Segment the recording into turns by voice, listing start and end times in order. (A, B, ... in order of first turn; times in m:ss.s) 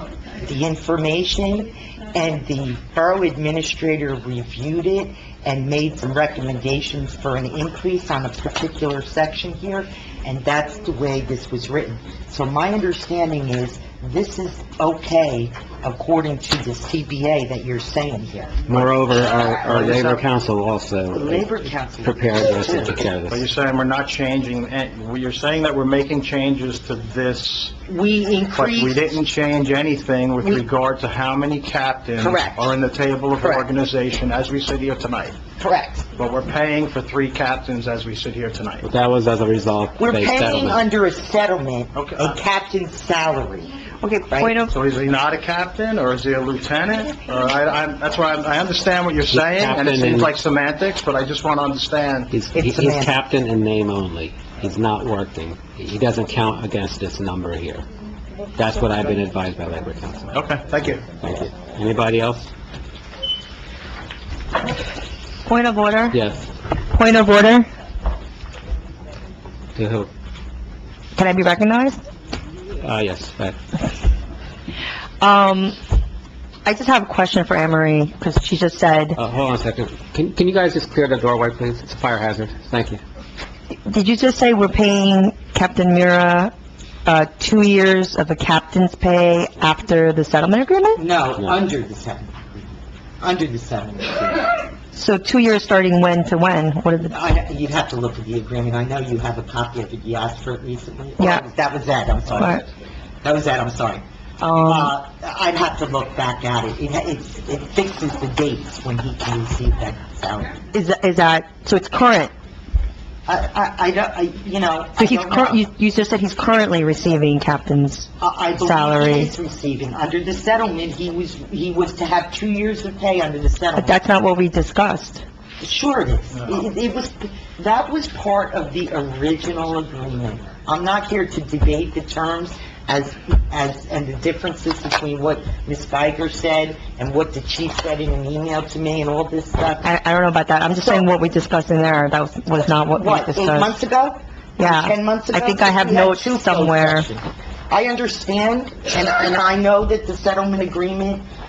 0:00.4-0:18.7 A
0:18.7-0:23.4 B
0:19.3-0:20.2 A
0:21.1-0:23.0 A
0:23.3-0:27.8 C
0:27.9-0:29.1 A
0:28.5-0:35.4 C
0:32.2-0:32.7 A
0:33.4-0:33.7 A
0:35.6-0:36.1 A
0:36.2-0:38.9 C
0:38.8-0:40.8 B
0:40.0-0:43.7 A
0:41.9-0:42.3 C
0:44.0-0:44.7 D
0:44.3-0:44.6 A
0:44.7-0:52.3 C
0:49.3-0:50.3 B
0:52.3-0:57.9 B
0:52.5-0:53.2 A
0:58.6-1:00.4 B
1:00.3-1:01.1 C
1:01.2-1:02.5 B
1:05.5-1:06.2 D
1:06.1-1:06.5 B
1:06.9-1:07.7 D
1:09.8-1:10.1 B
1:11.2-1:12.0 D
1:12.8-1:13.6 B
1:15.2-1:15.8 D
1:16.6-1:19.2 D
1:19.2-1:23.0 B
1:23.8-1:26.5 D
1:27.1-1:31.0 D
1:31.0-1:34.5 A
1:34.9-1:37.1 D
1:37.1-1:42.7 A
1:41.2-1:41.4 D
1:43.2-1:44.0 A
1:44.4-1:44.9 D
1:44.6-1:50.6 A
1:50.7-1:52.3 D
1:53.3-1:55.7 A
1:55.0-1:59.3 D
1:58.2-2:04.0 A
2:03.8-2:05.2 D
2:05.6-2:19.9 A
2:19.8-2:23.8 D
2:22.9-2:31.2 A
2:24.6-2:27.1 D